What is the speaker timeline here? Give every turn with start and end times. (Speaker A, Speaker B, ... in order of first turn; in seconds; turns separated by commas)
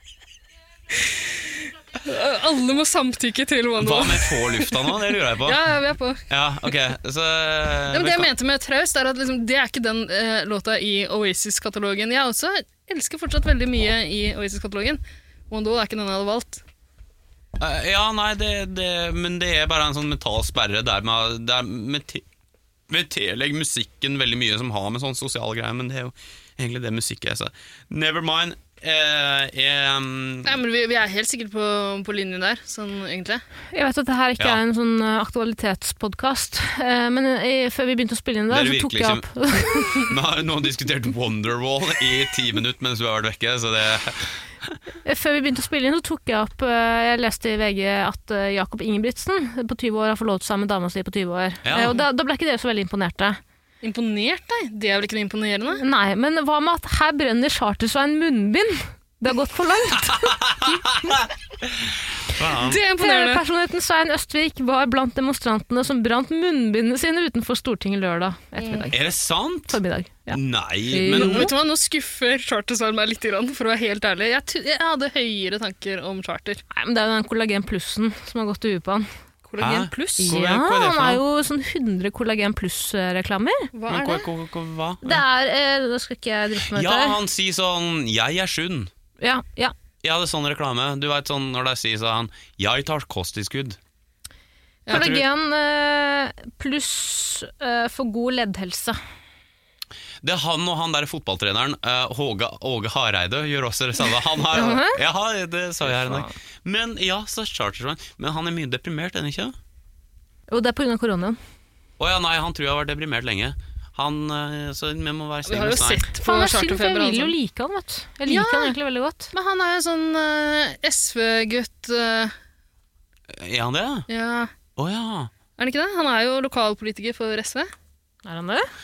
Speaker A: 0.9-6.2, Speaker B: 3.8-5.6, Speaker B: 6.3-8.3, Speaker A: 7.9-16.6, Speaker B: 17.6-22.2, Speaker B: 22.9-30.6, Speaker A: 30.4-33.4, Speaker C: 33.7-40.1, Speaker B: 38.5-39.3, Speaker B: 39.8-44.8, Speaker C: 45.0-53.4, Speaker B: 51.6-52.0, Speaker A: 53.8-55.8, Speaker C: 55.8-60.8, Speaker B: 60.0-62.8, Speaker A: 62.5-63.4, Speaker C: 63.0-69.0, Speaker A: 68.6-68.9, Speaker B: 68.9-69.8, Speaker C: 69.7-70.4, Speaker B: 70.3-71.5, Speaker C: 70.9-71.5, Speaker A: 71.1-76.6, Speaker C: 76.7-79.0, Speaker A: 79.5-80.3, Speaker B: 79.6-81.2, Speaker C: 80.2-83.7, Speaker A: 83.7-84.2, Speaker B: 83.9-85.2, Speaker C: 85.0-87.2, Speaker B: 86.7-88.9, Speaker C: 89.2-89.7, Speaker B: 90.0-93.8, Speaker A: 94.8-95.1, Speaker C: 94.9-99.0, Speaker B: 94.9-95.2, Speaker B: 100.2-109.5, Speaker C: 104.5-105.0, Speaker C: 105.9-106.3, Speaker C: 110.5-111.4, Speaker B: 112.0-116.0, Speaker A: 115.5-117.3, Speaker C: 116.2-119.3, Speaker A: 118.3-118.7, Speaker A: 119.3-122.3, Speaker B: 123.3-124.1, Speaker A: 124.1-124.5, Speaker B: 124.8-125.3, Speaker A: 125.6-127.7, Speaker C: 128.2-128.7